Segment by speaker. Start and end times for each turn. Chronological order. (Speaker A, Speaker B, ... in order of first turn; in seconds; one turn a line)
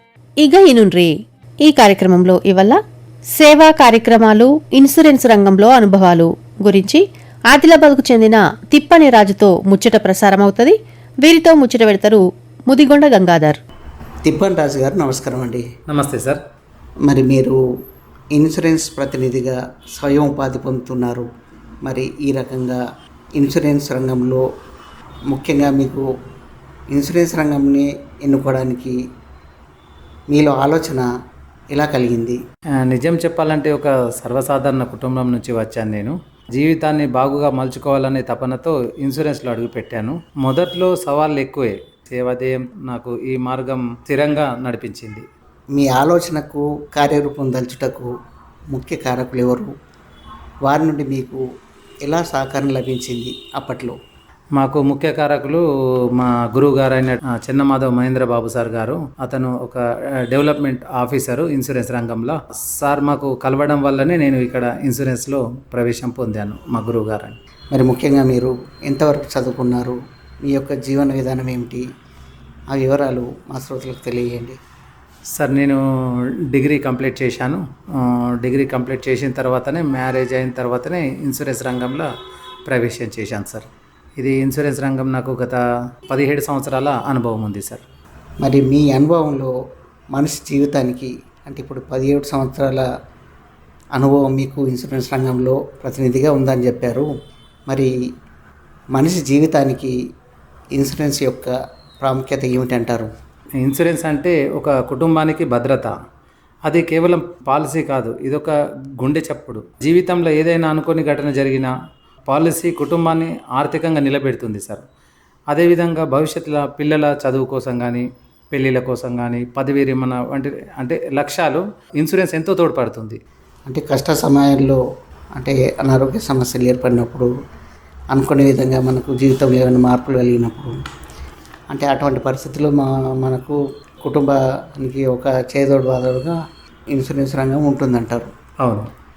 Speaker A: 0.4-1.1
Speaker A: 1.6-2.8
Speaker A: 3.4-13.6
Speaker B: 14.2-15.7
Speaker C: 15.9-16.4
Speaker B: 17.1-17.6
Speaker B: 18.4-21.3
Speaker B: 21.9-22.8
Speaker B: 23.4-24.4
Speaker B: 25.3-26.1
Speaker B: 26.9-29.0
Speaker B: 30.3-31.1
Speaker B: 31.7-32.4
Speaker C: 32.9-45.3
Speaker B: 45.8-48.1
Speaker B: 48.7-49.7
Speaker B: 50.7-51.4
Speaker B: 52.0-54.0
Speaker C: 54.6-55.6
Speaker C: 56.2-67.4
Speaker B: 67.7-71.8
Speaker B: 72.7-74.6
Speaker C: 75.3-75.8
Speaker C: 76.5-82.1
Speaker C: 82.7-83.7
Speaker C: 84.2-87.8
Speaker B: 88.4-89.5
Speaker B: 90.1-92.9
Speaker B: 94.0-97.1
Speaker B: 99.0-100.0
Speaker B: 100.8-103.1
Speaker C: 103.6-105.9
Speaker C: 106.7-111.7
Speaker C: 112.3-114.8
Speaker C: 115.5-123.2
Speaker B: 123.7-124.8
Speaker B: 125.4-127.3
Speaker B: 128.1-130.7
Speaker B: 131.7-136.4
Speaker B: 136.9-138.3
Speaker C: 138.6-138.9